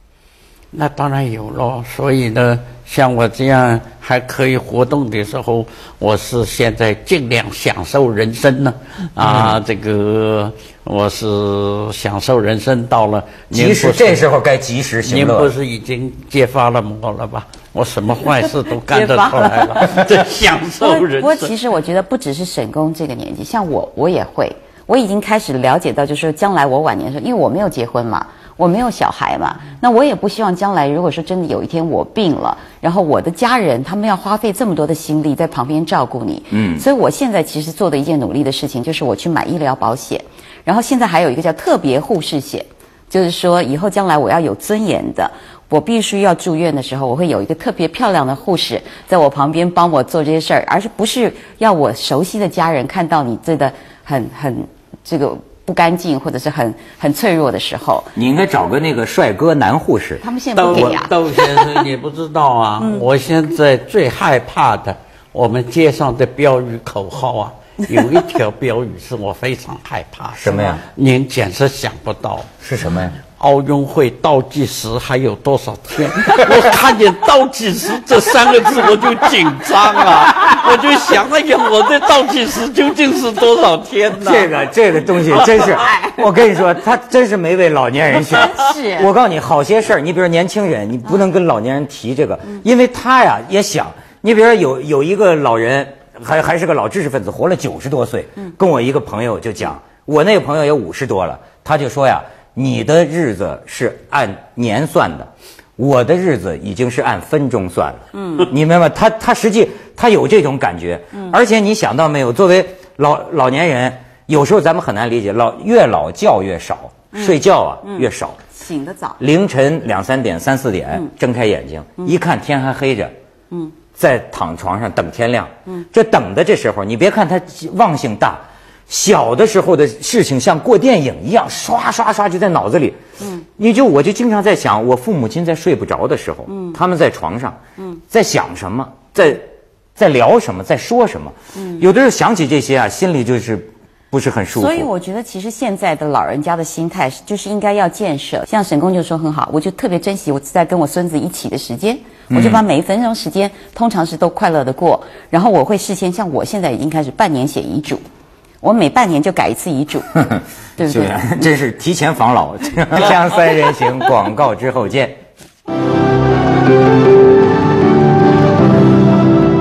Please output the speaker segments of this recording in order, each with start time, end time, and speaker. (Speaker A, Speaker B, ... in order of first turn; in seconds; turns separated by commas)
Speaker A: 0.7-14.3, Speaker B: 9.2-9.6, Speaker B: 13.5-15.5, Speaker A: 15.1-21.5, Speaker C: 18.9-20.0, Speaker C: 20.7-58.1, Speaker B: 36.5-36.9, Speaker B: 58.1-60.9, Speaker C: 60.2-61.8, Speaker A: 60.5-72.5, Speaker B: 70.4-70.8, Speaker B: 72.6-73.2, Speaker A: 73.3-84.5, Speaker B: 84.2-118.4, Speaker C: 85.3-86.3, Speaker C: 88.3-89.1, Speaker C: 108.1-108.5, Speaker C: 117.2-119.2, Speaker B: 119.2-123.2, Speaker B: 124.0-133.0, Speaker C: 133.2-133.4, Speaker B: 133.6-144.9, Speaker C: 136.5-136.8, Speaker C: 141.6-141.9, Speaker C: 144.6-158.0, Speaker B: 152.3-152.6, Speaker C: 158.6-160.2, Speaker B: 160.3-165.2, Speaker C: 160.8-161.5